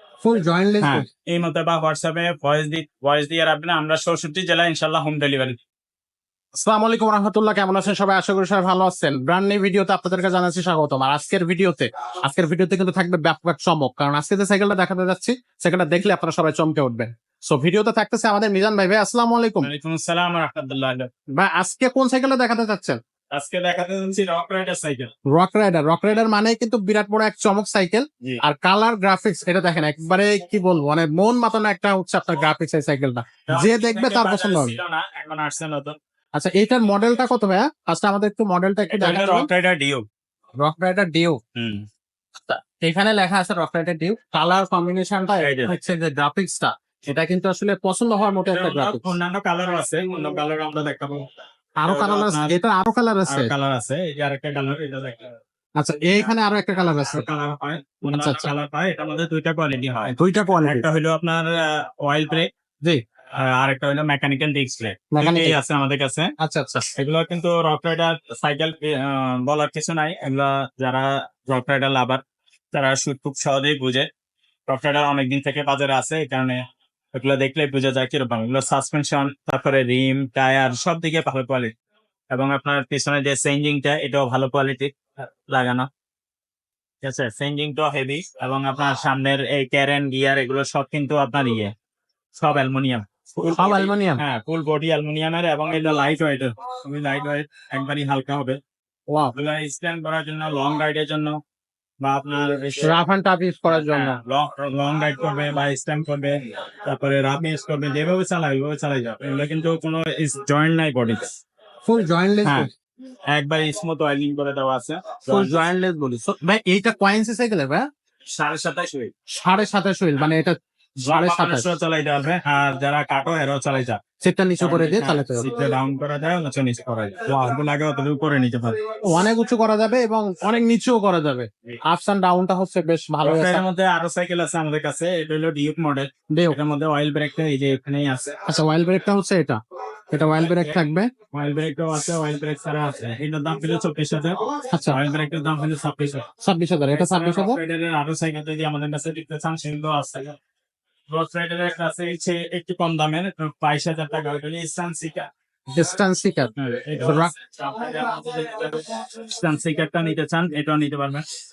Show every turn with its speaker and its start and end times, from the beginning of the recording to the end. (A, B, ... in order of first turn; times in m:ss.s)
0:00.2-0:01.1 A
0:00.8-0:05.6 B
0:06.6-0:19.7 A
0:19.6-0:21.1 B
0:21.3-0:23.0 A
0:23.3-0:25.1 B
0:25.3-0:34.8 A
0:33.5-0:36.0 B
0:36.4-0:39.5 A
0:38.9-0:40.1 B
0:40.6-0:41.4 A
0:41.6-0:41.9 B
0:42.4-0:49.2 A
0:45.4-0:45.7 B
0:48.5-0:51.3 B
0:51.8-0:53.5 A
0:51.8-0:52.5 B
0:53.3-0:55.4 B
0:55.8-0:57.3 A
0:57.1-1:00.1 B
0:58.0-0:58.5 A
1:00.1-1:00.8 A
1:00.6-1:02.5 B
1:03.3-1:06.3 B
1:05.1-1:05.6 A
1:06.4-1:06.9 A
1:07.0-1:12.2 B
1:12.7-1:14.1 B
1:14.7-1:16.6 B
1:17.1-1:21.7 B
1:22.3-1:25.9 B
1:27.0-1:31.7 B
1:32.4-1:38.6 B
1:33.5-1:34.2 A
1:39.3-1:41.4 B
1:42.0-1:43.0 B
1:42.8-1:44.2 A
1:43.7-1:51.4 B
1:51.8-1:52.7 A
1:52.4-1:52.7 B
1:53.3-1:56.2 B
1:55.3-1:57.9 A
1:58.3-1:59.1 B
1:59.3-2:01.7 A
2:01.0-2:04.0 B
2:04.2-2:05.5 A
2:04.6-2:09.0 B
2:09.0-2:13.6 A
2:13.2-2:18.4 B
2:16.3-2:16.6 A
2:18.5-2:19.6 A
2:20.1-2:21.1 A
2:20.4-2:20.8 B
2:21.3-2:26.3 B
2:24.7-2:25.0 A
2:26.4-2:27.6 A
2:26.9-2:30.4 B
2:31.1-2:35.3 B
2:35.8-2:37.3 A
2:36.6-2:41.3 B